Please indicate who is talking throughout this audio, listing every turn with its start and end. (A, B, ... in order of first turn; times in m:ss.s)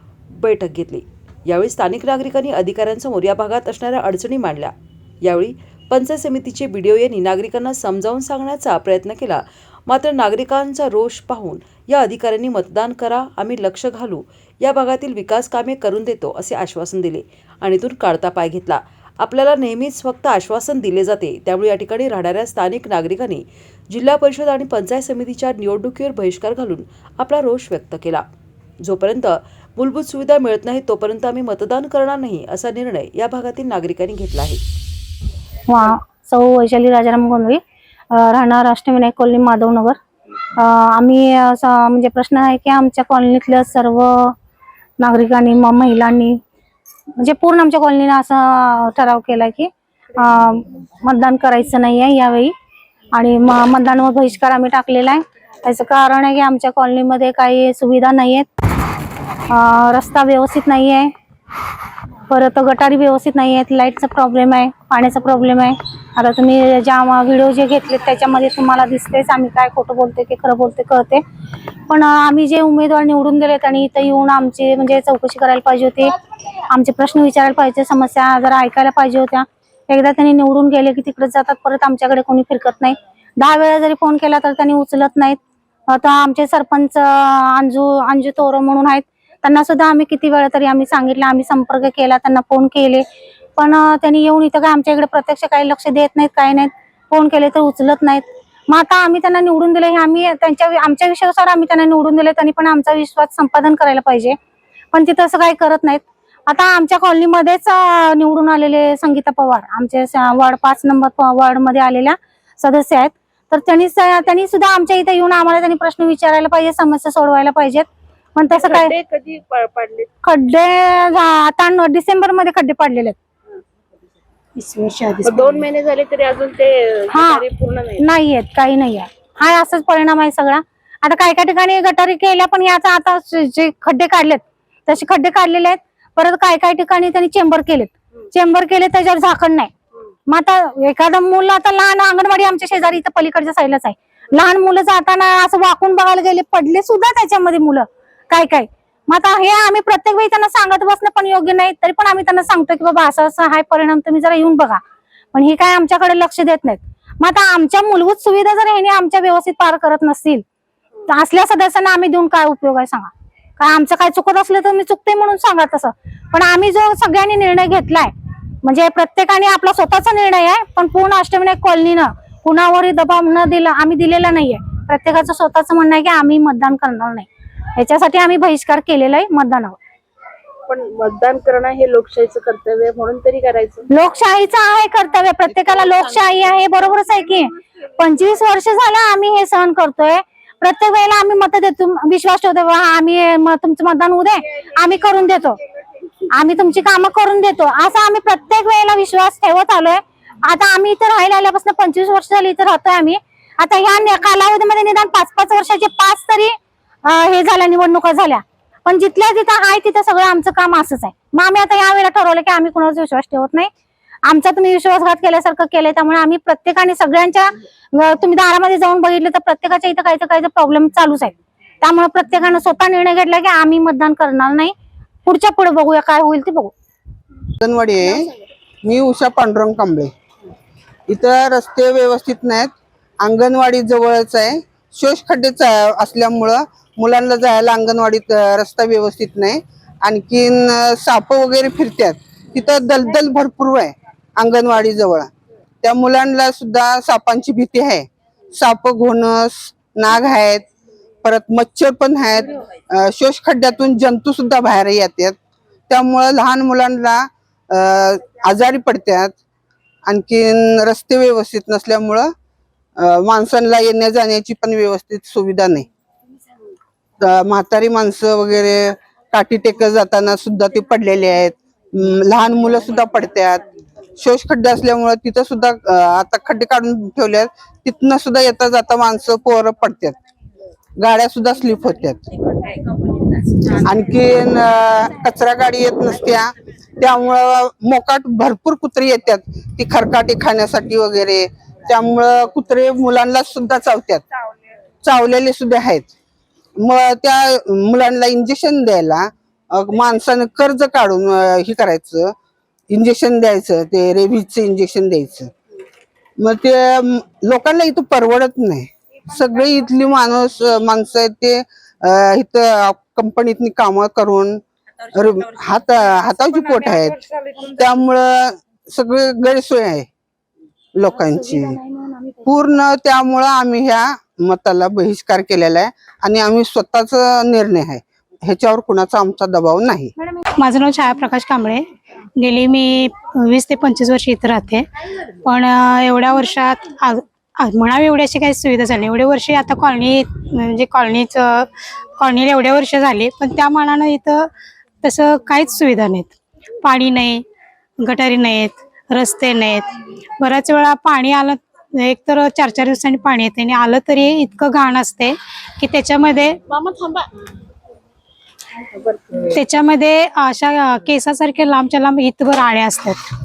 0:00.4-0:04.7 A
0:05.2-0:28.2 A
0:28.8-0:34.6 A
0:35.7-0:37.6 B
0:38.1-0:40.0 B
0:40.6-0:44.3 B
0:45.0-0:46.4 B
0:47.2-0:52.5 B
0:53.1-0:58.4 B
0:59.5-1:01.1 B
1:02.3-1:11.2 B
1:11.9-1:16.1 B
1:16.7-1:25.4 B
1:25.9-1:33.0 B
1:33.6-1:44.4 B
1:44.9-1:58.9 B
1:58.5-2:00.1 C
2:00.2-2:03.2 B
2:04.6-2:05.6 D
2:05.2-2:08.0 C
2:07.1-2:07.4 B
2:08.0-2:19.7 B
2:20.3-2:34.8 B
2:35.3-2:40.4 B
2:41.1-2:48.1 B
2:48.6-2:59.8 B
3:00.7-3:03.8 C
3:03.9-3:15.6 B
3:05.6-3:06.0 C
3:16.3-3:26.5 B
3:27.0-3:33.7 B
3:34.2-3:44.7 B
3:45.2-3:46.7 B
3:47.6-3:48.3 E
3:48.8-3:50.1 E
3:51.1-3:52.7 E
3:53.2-4:05.3 E
4:05.8-4:10.7 E
4:11.2-4:15.4 E
4:15.9-4:19.4 E
4:20.0-4:22.3 E
4:23.0-4:25.9 E
4:27.2-4:33.6 E
4:34.2-4:40.2 E
4:41.0-4:42.2 E
4:42.7-4:43.7 C
4:43.8-4:54.2 E
4:55.0-4:56.1 E
4:56.8-5:02.3 E
5:02.9-5:05.5 E
5:06.4-5:14.6 E
5:15.1-5:20.1 E
5:17.3-5:17.6 C
5:20.9-5:21.8 E
5:21.7-5:22.4 B
5:22.4-5:30.1 E
5:30.6-5:31.8 D
5:32.4-5:44.5 D
5:45.0-5:47.4 D
5:48.0-5:49.9 D
5:50.4-5:56.6 D
5:56.6-5:57.3 C
5:58.9-5:59.5 C
5:59.5-6:03.2 D